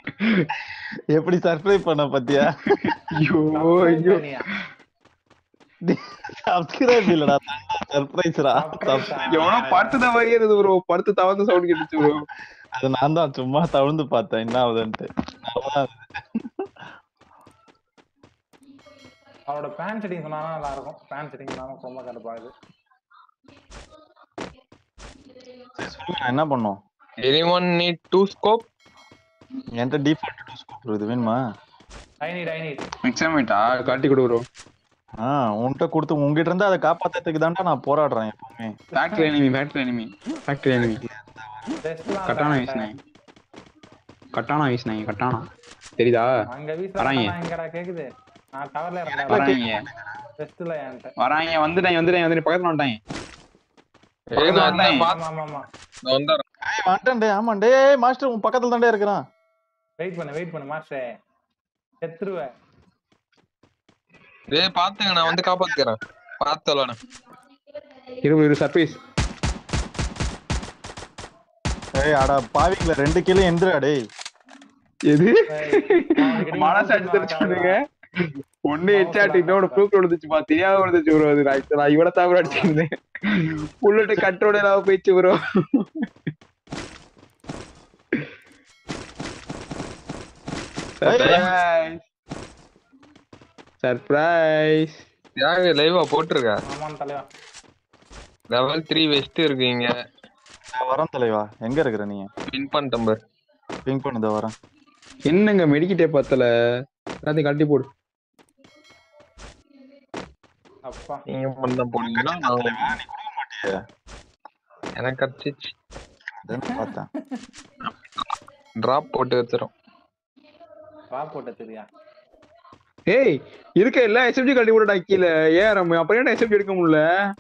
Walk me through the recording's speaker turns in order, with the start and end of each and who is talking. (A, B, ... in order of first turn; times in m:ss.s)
0:00.2-0:00.5 A
0:01.1-0:03.0 B
0:02.7-0:04.2 A
0:03.5-0:04.5 C
0:05.9-0:09.3 B
0:08.6-0:10.0 C
0:09.3-0:12.2 A
0:11.8-0:12.1 B
0:12.8-0:16.7 B
0:19.5-0:22.5 C
0:25.8-0:26.8 B
0:27.2-0:28.7 D
0:29.8-0:31.4 B
0:32.2-0:32.8 C
0:33.0-0:34.4 A
0:35.2-0:38.8 B
0:39.0-0:41.0 A
0:39.0-0:39.3 C
0:40.8-0:41.8 B
0:41.8-0:42.9 C
0:42.3-0:42.9 A
0:44.3-0:45.5 A
0:46.0-0:46.3 A
0:46.5-0:49.6 C
0:47.0-0:47.3 A
0:49.1-0:50.1 B
0:49.3-0:49.8 A
0:50.4-0:51.1 C
0:51.2-0:53.0 A
0:54.3-0:55.2 D
0:54.4-0:55.0 A
0:54.4-0:55.7 C
0:56.0-0:56.4 D
0:56.7-0:59.2 B
1:00.0-1:01.0 C
1:02.0-1:02.5 C
1:04.5-1:07.0 D
1:05.2-1:05.8 B
1:08.2-1:09.0 A
1:12.0-1:14.0 B
1:15.1-1:26.0 A
1:15.5-1:17.8 C
1:18.9-1:19.8 C
1:22.4-1:22.7 C
1:31.0-1:32.0 A
1:31.0-1:31.5 B
1:33.8-1:35.0 A
1:35.4-1:36.6 D
1:36.7-1:37.2 C
1:38.5-1:39.9 D
1:40.7-1:42.3 B
1:42.5-1:43.2 D
1:43.9-1:44.5 B
1:45.3-1:46.5 A
1:47.2-1:47.9 A
1:50.9-1:51.2 C
1:51.3-1:52.9 D
1:52.0-1:53.7 B
1:55.0-1:55.7 D
1:56.4-1:57.1 B
1:58.8-1:59.7 D
2:01.1-2:01.9 C
2:03.1-2:07.0 A